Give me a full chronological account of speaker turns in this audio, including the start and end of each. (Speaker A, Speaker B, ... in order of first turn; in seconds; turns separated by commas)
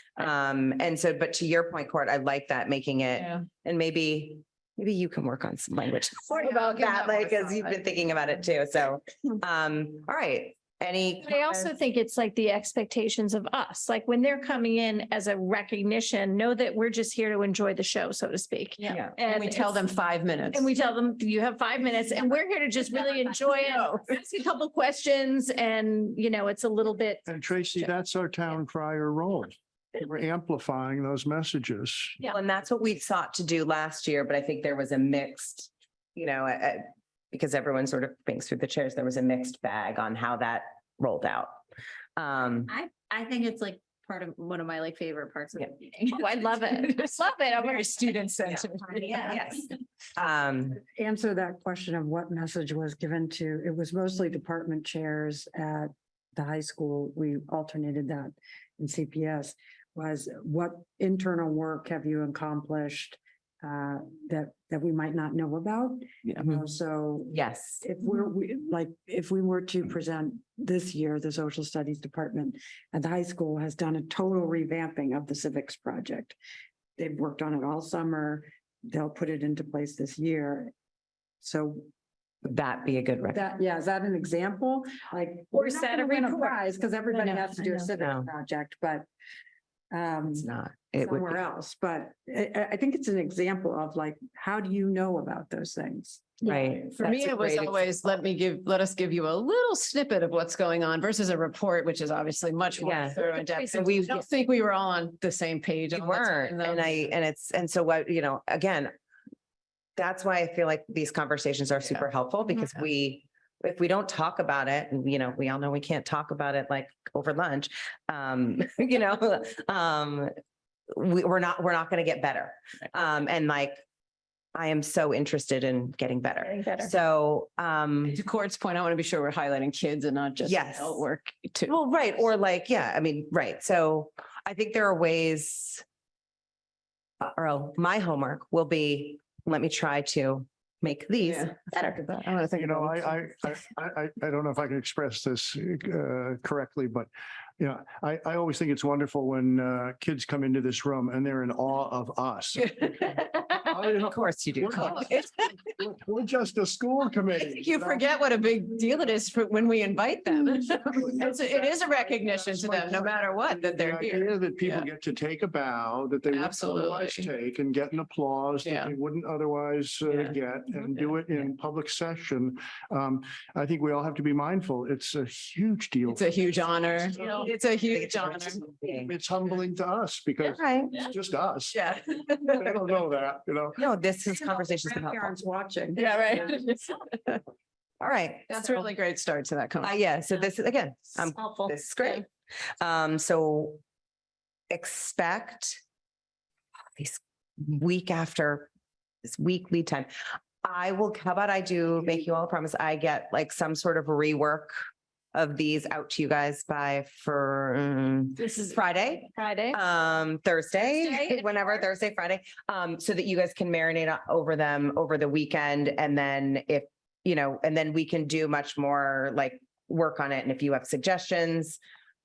Speaker A: 0.2-11.7, Speaker B: 3.1-3.5, Speaker B: 6.3-7.8, Speaker C: 11.2-19.9, Speaker B: 18.8-20.7, Speaker C: 20.5-27.9, Speaker B: 23.2-24.1, Speaker D: 27.2-32.2, Speaker A: 32.3-41.6, Speaker A: 42.2-42.7, Speaker E: 42.7-46.7, Speaker C: 46.1-49.1, Speaker A: 48.5-49.6, Speaker E: 48.7-49.6, Speaker A: 50.2-50.8, Speaker F: 50.9-76.4, Speaker A: 67.3-67.8, Speaker F: 77.0-80.7, Speaker F: 81.4-81.9, Speaker A: 82.4-83.4, Speaker F: 83.3-89.1, Speaker C: 85.5-86.6, Speaker C: 87.1-87.9, Speaker A: 88.0-88.3, Speaker F: 89.9-96.4, Speaker A: 90.3-91.4, Speaker B: 96.4-107.2, Speaker A: 96.5-97.8, Speaker A: 102.8-104.2, Speaker A: 105.9-108.9, Speaker A: 110.0-120.3, Speaker B: 111.8-112.1, Speaker A: 121.0-123.8, Speaker A: 124.5-128.2, Speaker C: 126.4-126.9, Speaker B: 128.0-131.7, Speaker A: 130.4-131.0, Speaker A: 131.7-135.8, Speaker A: 137.2-141.5, Speaker B: 141.2-143.2, Speaker D: 142.6-152.7, Speaker B: 152.6-153.5, Speaker D: 153.6-158.0, Speaker A: 153.9-155.5, Speaker B: 157.4-164.9, Speaker D: 162.3-177.4, Speaker B: 166.2-167.3, Speaker B: 168.6-168.9, Speaker B: 170.0-171.2, Speaker B: 176.1-178.7, Speaker A: 178.0-179.1, Speaker D: 179.0-181.8, Speaker A: 180.4-181.1, Speaker A: 181.7-182.6, Speaker D: 182.5-183.8, Speaker A: 183.8-185.3, Speaker F: 184.3-186.6, Speaker B: 185.9-187.4, Speaker A: 188.0-188.8, Speaker B: 188.5-190.3, Speaker A: 189.8-192.3, Speaker A: 192.8-193.8, Speaker A: 194.7-195.8, Speaker A: 197.0-198.7, Speaker A: 199.3-200.1, Speaker A: 200.6-204.7, Speaker A: 205.3-221.8, Speaker C: 208.3-209.8, Speaker C: 211.0-211.4